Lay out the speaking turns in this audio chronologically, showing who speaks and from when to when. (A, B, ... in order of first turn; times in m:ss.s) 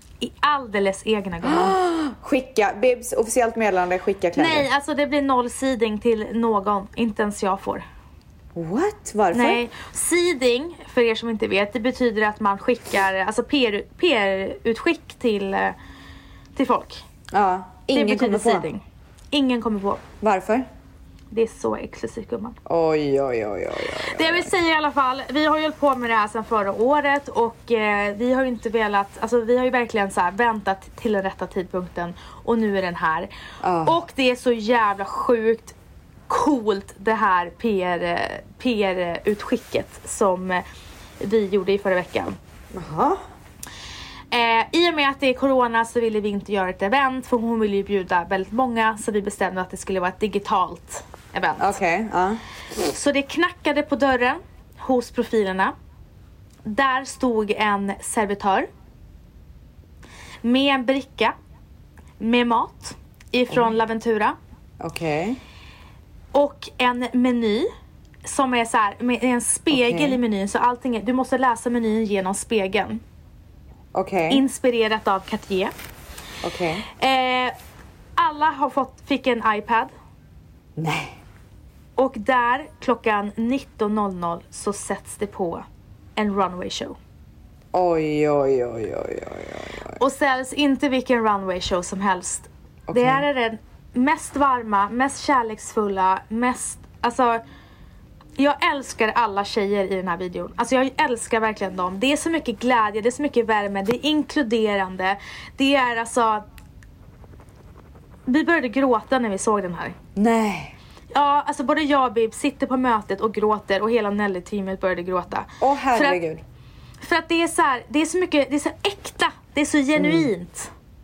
0:00.2-0:01.8 A
0:01.4-0:04.7 B
0:04.4-0:07.8 A
0:08.5-0:09.6 B
0:09.3-0:15.8 A
0:16.5-0:17.0 A
0:17.3-0:18.7 B
0:17.9-0:20.0 A
0:20.2-0:20.6 B
0:21.3-0:22.6 A
0:22.6-0:24.5 B
0:24.0-0:33.3 A
0:33.6-0:34.0 B
0:33.8-0:35.7 A
0:36.3-0:40.6 A
0:41.2-0:42.4 A
0:42.7-0:43.2 B
0:44.3-0:51.8 A
0:51.6-0:52.4 B
0:52.8-0:55.7 A
0:56.6-0:58.7 A
1:00.4-1:01.3 A
1:02.2-1:04.4 A
1:04.8-1:05.4 B
1:06.3-1:07.7 A
1:08.2-1:13.0 A
1:09.7-1:10.2 B
1:13.9-1:14.4 B
1:14.3-1:15.7 A
1:16.4-1:16.8 B
1:16.9-1:17.5 A
1:18.2-1:19.9 A
1:20.8-1:21.2 B
1:22.0-1:25.6 A
1:26.2-1:27.0 A
1:27.7-1:30.0 B
1:30.0-1:37.4 A
1:32.9-1:33.2 B
1:38.4-1:46.4 A
1:48.2-1:50.0 A
1:50.2-1:50.8 B
1:51.1-1:56.2 A
1:55.6-1:56.4 B
1:57.0-2:00.7 A
2:00.0-2:00.3 B